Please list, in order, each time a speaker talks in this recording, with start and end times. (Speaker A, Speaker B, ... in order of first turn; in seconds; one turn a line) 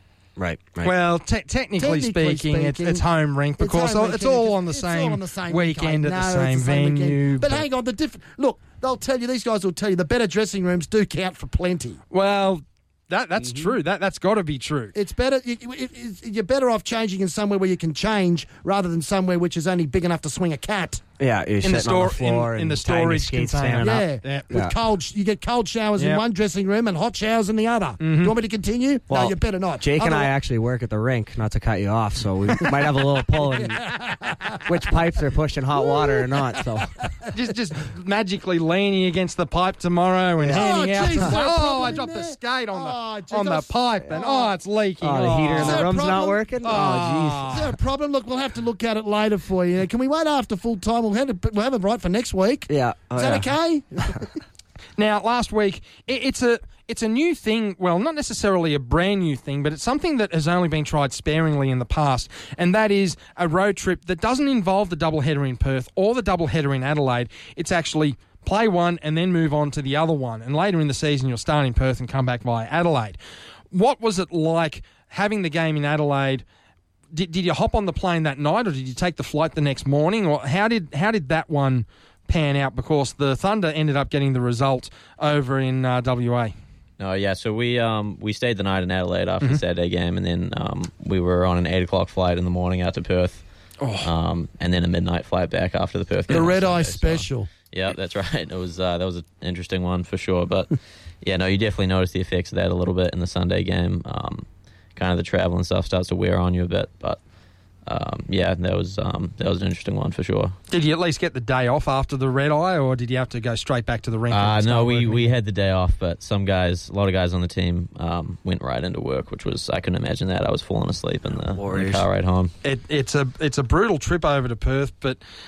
Speaker A: 0.4-0.9
Speaker B: 0.8-7.7
Speaker C: 1.8-3.0
Speaker C: 3.6-12.0
Speaker B: 12.1-14.9
Speaker C: 14.9-21.0
Speaker A: 21.2-24.8
Speaker B: 21.6-24.5
Speaker C: 23.8-30.3
Speaker B: 26.0-26.2
Speaker B: 28.0-28.3
Speaker A: 29.1-33.8
Speaker C: 32.6-34.7
Speaker A: 34.6-36.9
Speaker C: 35.8-37.3
Speaker B: 37.3-46.1
Speaker A: 40.4-41.3
Speaker C: 40.5-44.5
Speaker A: 45.0-47.6
Speaker C: 45.6-54.4
Speaker B: 46.6-47.7
Speaker A: 52.7-53.5
Speaker B: 55.0-73.2
Speaker B: 73.7-76.4
Speaker B: 77.1-86.5
Speaker D: 87.0-93.5
Speaker B: 93.8-94.1
Speaker D: 94.0-107.2
Speaker C: 96.3-97.5
Speaker D: 107.9-110.6
Speaker B: 110.7-115.2
Speaker D: 114.3-122.5
Speaker A: 121.5-122.1
Speaker B: 122.6-125.2